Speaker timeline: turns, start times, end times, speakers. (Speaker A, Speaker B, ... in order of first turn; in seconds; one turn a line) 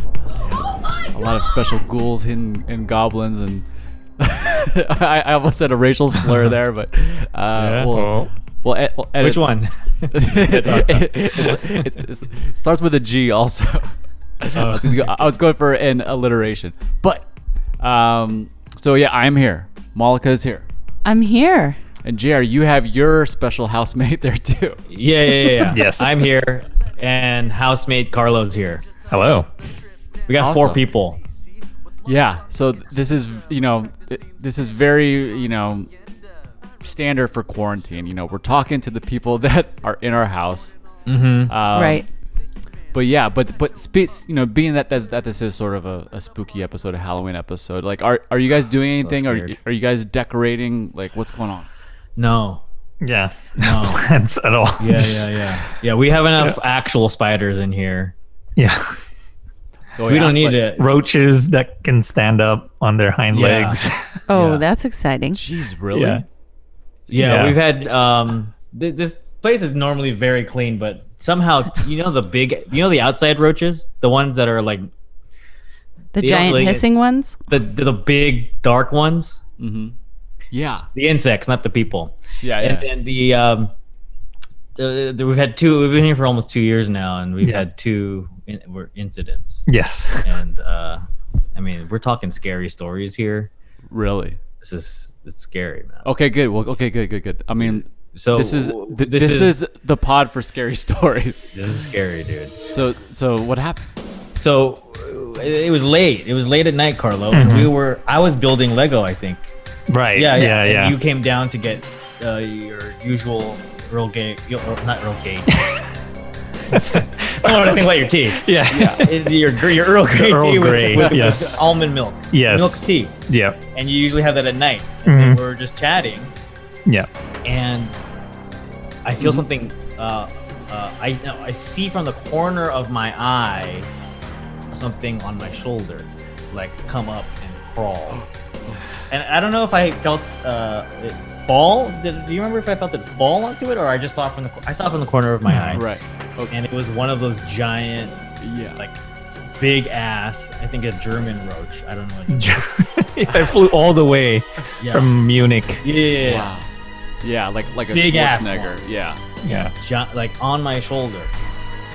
Speaker A: 0.4-3.7
Speaker A: 4.2-9.6
Speaker B: 7.5-7.9
Speaker C: 7.9-8.3
Speaker B: 9.2-11.9
Speaker A: 10.1-17.3
Speaker B: 14.5-15.3
Speaker A: 17.8-20.7
Speaker D: 21.0-21.8
Speaker A: 22.0-24.8
Speaker B: 24.9-28.8
Speaker C: 25.6-26.2
Speaker C: 29.1-29.5
Speaker B: 30.3-31.2
Speaker A: 30.4-30.8
Speaker A: 32.0-35.9
Speaker A: 36.8-40.7
Speaker B: 41.0-41.5
Speaker A: 41.5-42.0
Speaker D: 41.7-42.0
Speaker A: 42.9-51.7
Speaker B: 48.9-49.6
Speaker B: 52.2-52.6
Speaker C: 53.0-55.5
Speaker B: 53.6-54.0
Speaker B: 54.8-58.1
Speaker C: 58.6-59.0
Speaker A: 60.0-60.7
Speaker B: 60.0-60.9
Speaker C: 60.7-64.2
Speaker B: 63.3-64.6
Speaker D: 64.3-65.4
Speaker A: 65.3-66.2
Speaker C: 65.9-66.2
Speaker B: 67.1-74.9
Speaker C: 67.1-67.5
Speaker D: 76.1-77.4
Speaker B: 76.2-76.8
Speaker B: 77.5-79.4
Speaker A: 79.6-80.0
Speaker A: 80.5-80.9
Speaker B: 80.9-83.7
Speaker A: 82.4-82.8
Speaker B: 84.8-89.7
Speaker C: 89.7-90.3
Speaker B: 90.2-93.5
Speaker A: 93.9-94.4
Speaker B: 94.6-96.0
Speaker A: 96.0-101.5
Speaker B: 97.6-99.6
Speaker B: 101.5-102.5
Speaker A: 102.7-103.8
Speaker B: 104.4-109.5
Speaker C: 107.3-107.7
Speaker C: 109.9-111.0
Speaker B: 110.1-115.8
Speaker C: 115.6-115.9
Speaker C: 116.7-119.4
Speaker B: 116.7-123.2
Speaker A: 118.7-119.1
Speaker C: 120.0-121.6
Speaker A: 120.9-121.7
Speaker C: 122.3-123.6
Speaker B: 123.7-126.3
Speaker C: 125.0-125.4
Speaker B: 127.4-128.0
Speaker B: 129.0-133.9
Speaker B: 134.7-138.2
Speaker A: 138.1-138.8
Speaker B: 139.1-145.8
Speaker C: 145.4-145.8
Speaker A: 145.7-146.5
Speaker B: 146.5-148.2
Speaker A: 148.4-148.8
Speaker B: 149.6-152.6
Speaker C: 152.3-155.8
Speaker B: 154.8-155.1
Speaker B: 155.8-156.5
Speaker A: 156.2-156.7
Speaker A: 157.2-159.2
Speaker B: 157.9-158.8
Speaker C: 159.4-159.7
Speaker B: 159.5-161.3